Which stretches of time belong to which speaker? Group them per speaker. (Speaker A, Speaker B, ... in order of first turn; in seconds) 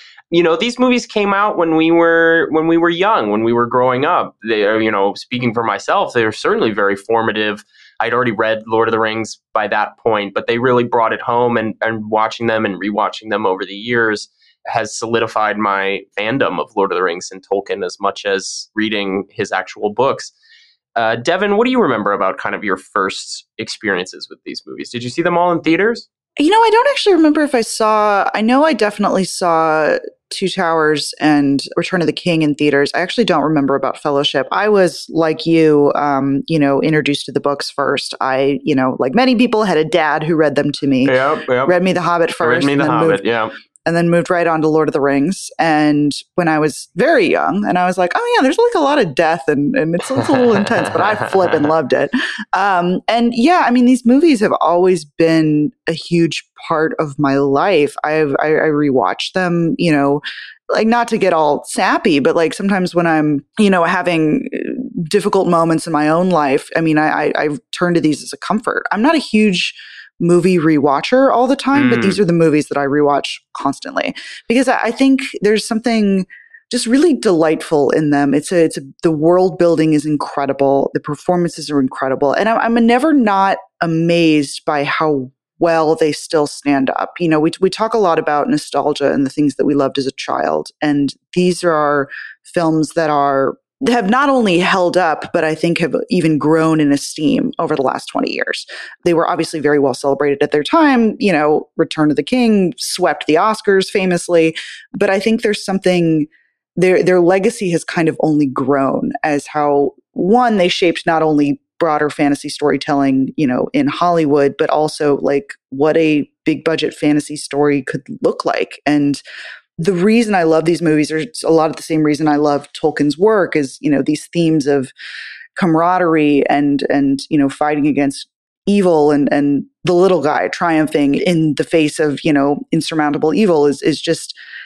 Speaker A: 0.3-20.3, 20.9-26.1, 41.0-41.8, 42.4-43.5, 50.3-51.3, 71.7-72.2
Speaker B: 26.4-43.2, 43.9-119.2, 119.8-124.9, 125.5-134.3